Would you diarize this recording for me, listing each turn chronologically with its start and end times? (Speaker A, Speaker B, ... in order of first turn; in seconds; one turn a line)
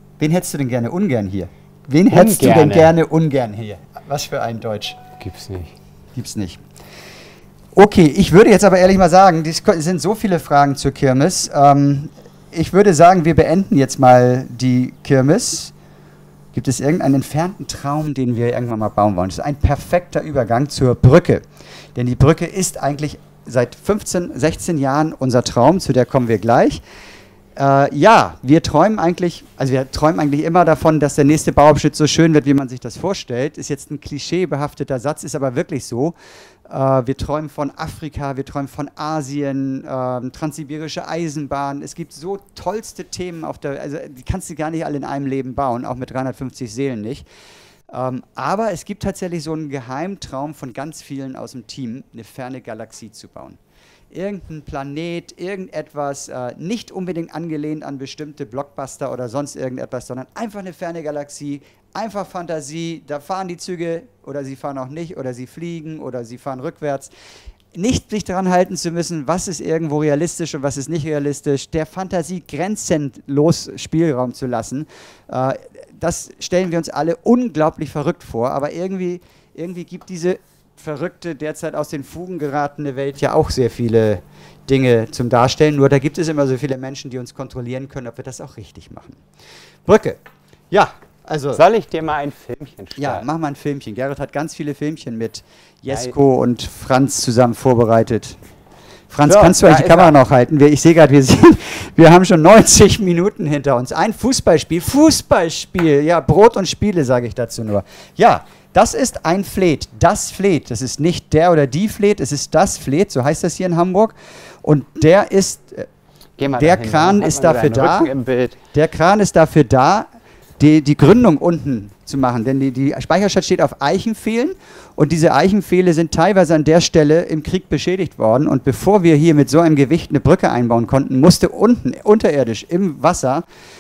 Speaker A: 0.2-5.0
Speaker B: 2.1-3.0
Speaker B: 5.2-5.7
Speaker A: 6.2-6.6
Speaker A: 7.8-15.7
Speaker A: 16.5-26.8
Speaker A: 27.6-36.2
Speaker A: 36.7-47.3
Speaker A: 47.9-53.6
Speaker A: 54.1-67.1
Speaker A: 67.8-89.2
Speaker A: 89.9-90.2
Speaker A: 90.7-91.6
Speaker B: 91.5-93.3
Speaker A: 93.0-98.4
Speaker A: 99.1-115.9
Speaker B: 99.3-100.2
Speaker B: 116.4-118.6
Speaker A: 116.5-118.1
Speaker A: 118.7-120.1
Speaker A: 120.6-133.5